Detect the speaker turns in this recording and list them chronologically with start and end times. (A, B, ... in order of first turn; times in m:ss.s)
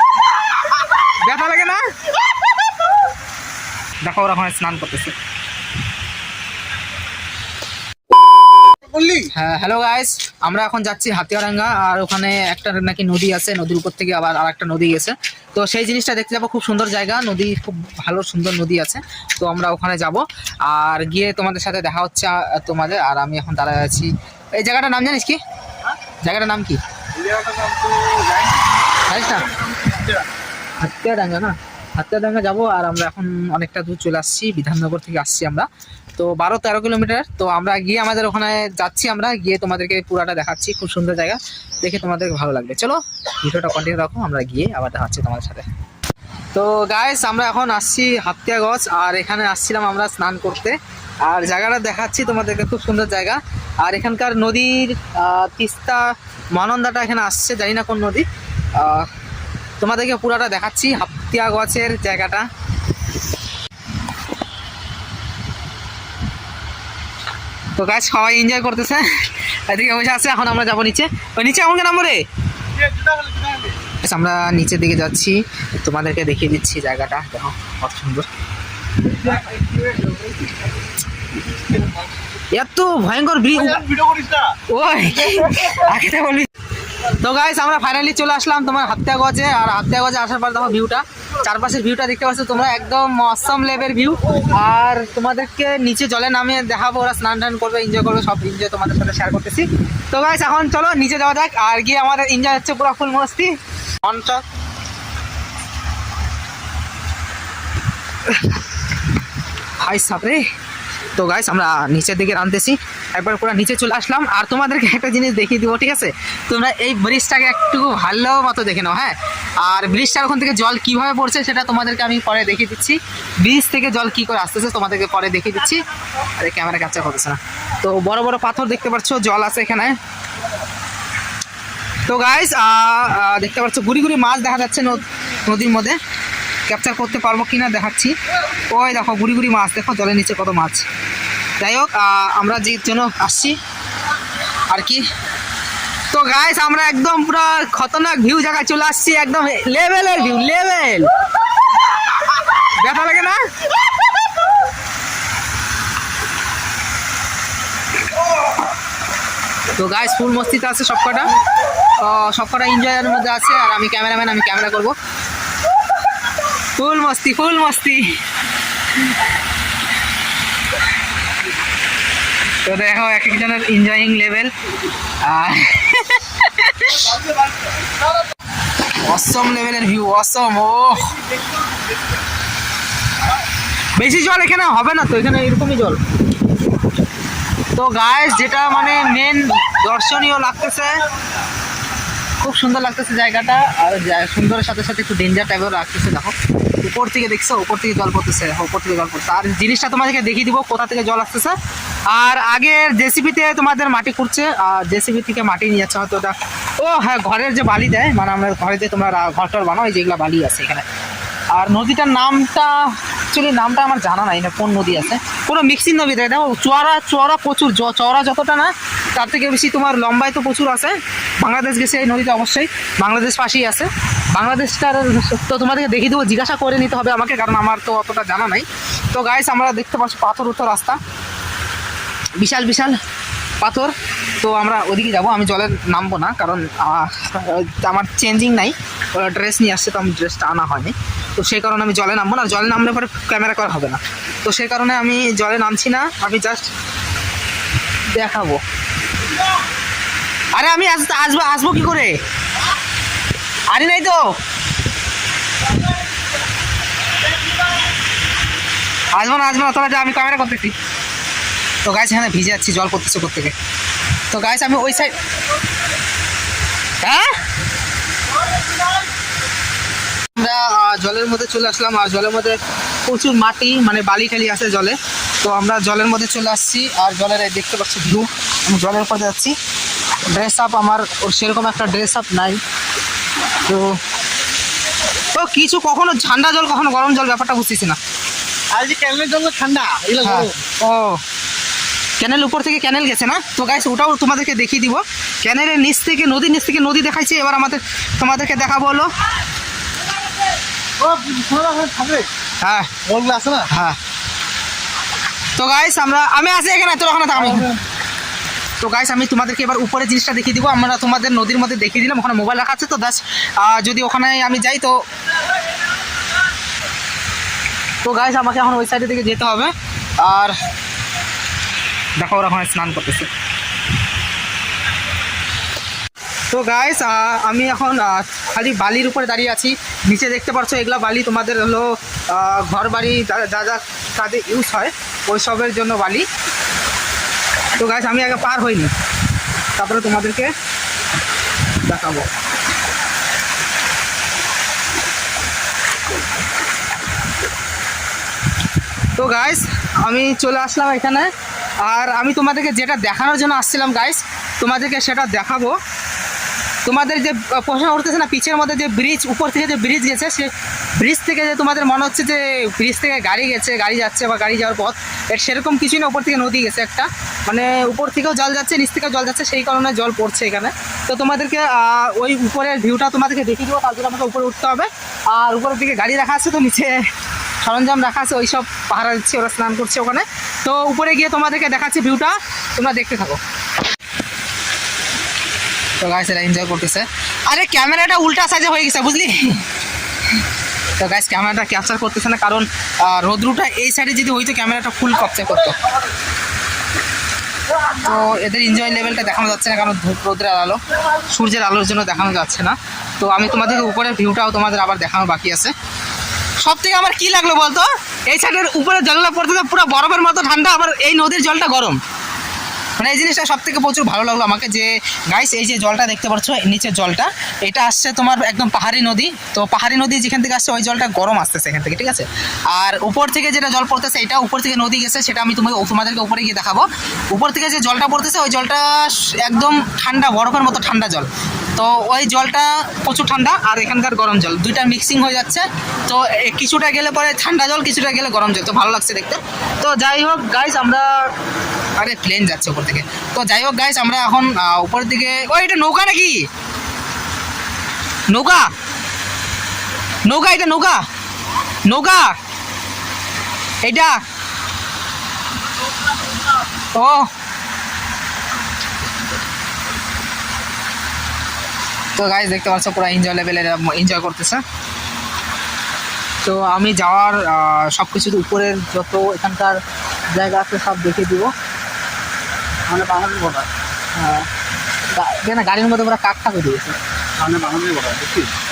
0:00.7-0:02.0 A
0:04.0-0:05.2 A
0:08.9-0:09.2 B
0:09.2-0:25.4 A
0:26.2-0:26.8 A
0:27.2-0:28.4 B
0:29.0-0:29.6 A
0:30.8-0:45.6 A
0:46.5-0:59.1 A
0:59.8-1:02.5 A
1:07.8-1:12.2 A
1:13.0-1:13.6 B
1:13.9-1:18.3 A
1:22.5-1:23.9 A
1:23.9-1:24.6 B
1:24.5-1:44.4 A
1:49.8-1:50.4 A
1:51.1-2:10.0 A
2:12.0-2:16.0 A
2:16.7-2:18.2 A
2:18.7-2:20.9 A
2:21.6-2:23.6 A
2:24.7-2:25.1 A
2:26.1-2:31.1 A
2:32.6-2:33.5 A
2:39.7-2:41.3 A
2:42.0-2:44.9 A
2:46.8-2:48.2 A
2:52.6-2:54.5 A
2:55.2-2:57.2 A
2:58.8-3:01.3 A
3:04.0-3:06.0 A
3:07.7-3:11.0 A
3:12.4-3:21.6 A
3:22.1-3:30.8 A
3:31.5-3:51.0 A
3:52.4-3:53.0 A
3:53.6-4:06.7 A
4:08.1-4:08.6 A
4:10.5-4:12.2 A
4:13.7-4:14.4 A
4:19.1-4:20.7 A
4:21.8-4:23.5 A
4:24.3-4:25.2 A
4:27.0-4:27.4 A
4:30.4-4:39.6 A
4:40.2-4:42.6 A
4:43.5-4:44.0 A
4:45.2-4:48.0 A
4:48.7-4:50.5 B
4:50.2-4:51.2 A
4:52.2-4:59.1 A
5:01.0-5:02.3 B
5:02.6-5:03.0 A
5:03.0-5:03.7 B
5:03.6-5:04.0 A
5:05.6-5:07.7 A
5:08.8-5:15.0 A
5:18.0-5:20.6 A
5:22.2-5:23.3 A
5:26.5-5:36.3 A
5:37.8-5:38.9 A
5:39.8-5:40.5 A
5:41.8-5:42.3 A
5:49.1-5:55.8 A
5:56.8-6:17.1 A
6:17.6-6:23.4 A
6:26.0-6:29.6 A
6:31.0-6:35.8 A
6:37.8-6:45.7 A
6:46.6-6:52.0 A
6:53.0-7:21.3 A
7:22.0-7:26.5 A
7:28.3-7:28.7 A
7:30.2-7:31.0 A
7:31.8-7:32.4 A
7:33.8-7:34.2 A
7:36.9-7:37.3 A
7:42.1-7:44.6 A
7:46.4-7:51.5 A
7:52.9-7:53.7 B
7:54.1-7:54.5 A
7:55.1-7:57.0 A
7:57.4-7:58.5 B